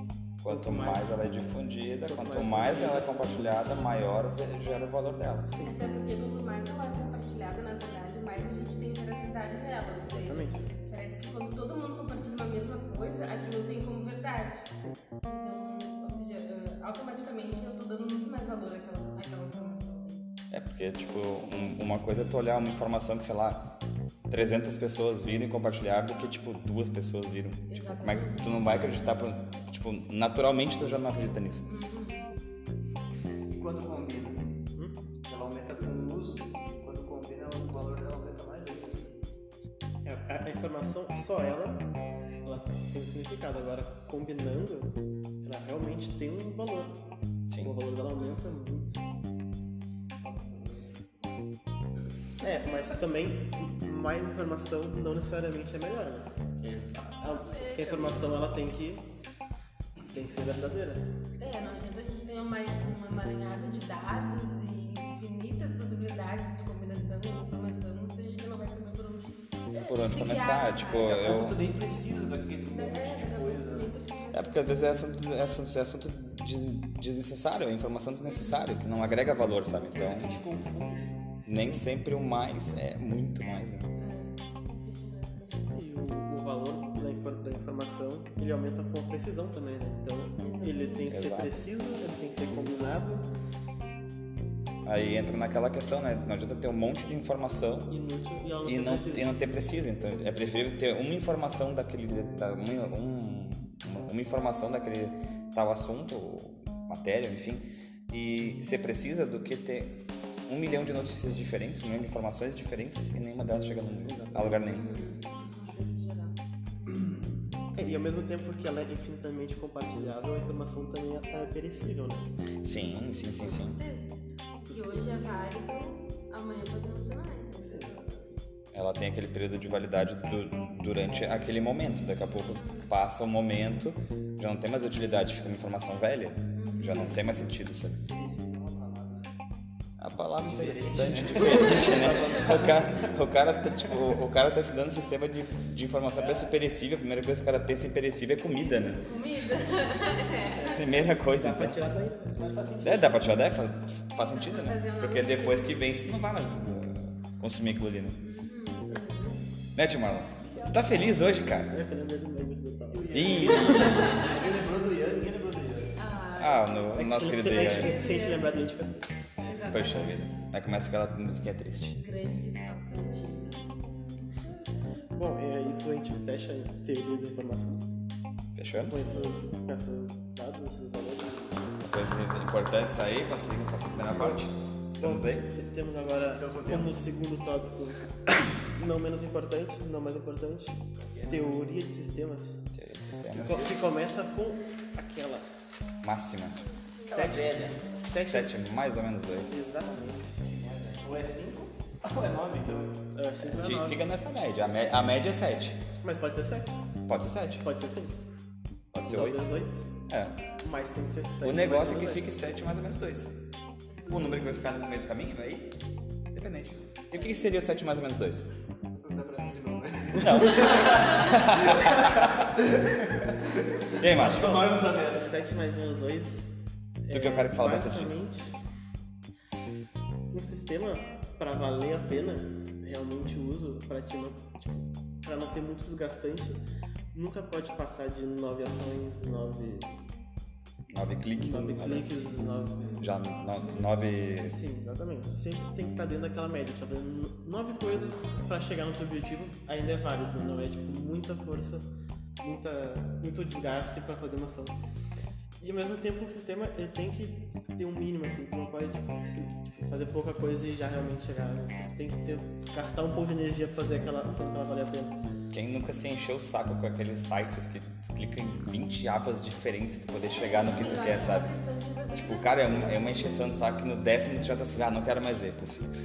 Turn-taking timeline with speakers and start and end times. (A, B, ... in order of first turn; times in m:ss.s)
0:00.4-0:05.5 A
0:00.4-0:01.2 B
0:02.0-0:03.1 B
0:05.5-0:05.8 B
0:05.6-0:14.7 C
0:10.1-0:10.6 B
0:15.2-0:20.2 C
0:20.5-0:23.6 A
0:24.3-0:31.6 A
0:27.7-0:28.5 C
0:31.6-0:32.3 C
0:33.5-0:34.6 D
0:35.3-0:39.2 D
0:40.0-0:47.0 B
0:47.6-0:49.0 B
0:50.2-0:50.9 D
0:52.4-0:56.3 B
0:56.6-0:58.4 D
0:57.2-0:59.1 B
1:00.1-1:01.1 B
1:01.4-1:11.4 C
1:09.7-1:11.6 A
1:11.0-1:13.9 D
1:12.7-1:15.0 C
1:14.3-1:20.4 A
1:18.2-1:18.7 C
1:19.9-1:21.6 D
1:21.4-1:23.9 A
1:24.0-1:25.7 C
1:25.7-1:33.2 B
1:30.4-1:31.1 C
1:31.1-1:31.6 A
1:34.8-1:37.9 A
1:37.9-1:39.3 B
1:38.6-1:54.9 A
1:54.3-1:54.6 B
1:54.7-1:56.4 C
1:57.7-2:02.3 B
2:02.6-2:03.8 A
2:03.0-2:08.0 C
2:07.7-2:08.2 D
2:08.7-2:18.0 A
2:12.5-2:12.9 C
2:16.6-2:17.2 C
2:16.8-2:17.3 D
2:18.1-2:19.3 D
2:20.0-2:29.2 A
2:20.4-2:23.1 D
2:26.1-2:26.5 D
2:29.0-2:30.8 C
2:30.4-2:30.9 D
2:30.6-2:31.8 A
2:31.2-2:32.4 B
2:32.3-2:33.2 D
2:32.8-2:38.2 A
2:34.2-2:35.8 C
2:38.2-2:39.4 C
2:39.8-2:41.7 A
2:40.4-2:41.3 D
2:41.7-2:43.5 B
2:42.9-2:45.9 D
2:43.1-2:44.0 A
2:43.5-2:44.5 C
2:46.0-2:46.9 C
2:46.4-2:48.0 A
2:46.9-2:49.1 B
2:47.5-2:48.5 C
2:49.4-2:49.7 D
2:49.4-2:50.1 C
2:49.7-2:52.0 A
2:52.0-2:53.6 C
2:55.1-2:57.8 B
2:58.5-2:59.0 A
2:58.8-3:01.8 B
2:59.0-2:59.5 C
3:01.8-3:05.4 A
3:04.2-3:04.4 B
3:05.0-3:08.0 B
3:06.2-3:07.0 D
3:08.6-3:12.6 B
3:11.0-3:11.5 D
3:12.7-3:13.8 A
3:13.3-3:15.4 B
3:16.0-3:16.6 A
3:16.6-3:17.2 C
3:17.0-3:17.8 D
3:17.1-3:17.5 A
3:17.9-3:18.5 B
3:18.2-3:19.6 A
3:19.5-3:20.4 B
3:20.4-3:23.0 D
3:23.1-3:24.1 B
3:23.4-3:25.8 A
3:24.6-3:25.0 B
3:26.0-3:26.9 B
3:27.1-3:27.6 A
3:27.6-3:28.2 B
3:28.9-3:29.5 A
3:29.1-3:29.8 B
3:30.1-3:30.4 A
3:30.6-3:32.4 B
3:31.4-3:33.3 A
3:33.9-3:34.4 C
3:34.1-3:35.7 A
3:36.3-3:38.5 A
3:38.9-3:45.4 D
3:40.2-3:42.3 A
3:44.0-3:44.7 A
3:44.3-3:46.5 B
3:47.0-3:48.5 B
3:47.1-3:48.2 A
3:50.3-3:56.6 B
3:57.1-3:59.9 B
4:00.9-4:02.4 A
4:01.4-4:03.1 B
4:03.0-4:04.6 A
4:03.6-4:03.9 C
4:04.4-4:11.8 B
4:12.4-4:14.7 B
4:15.6-4:25.1 B
4:25.5-4:31.5 A
4:30.3-4:33.3 C
4:32.1-4:35.9 A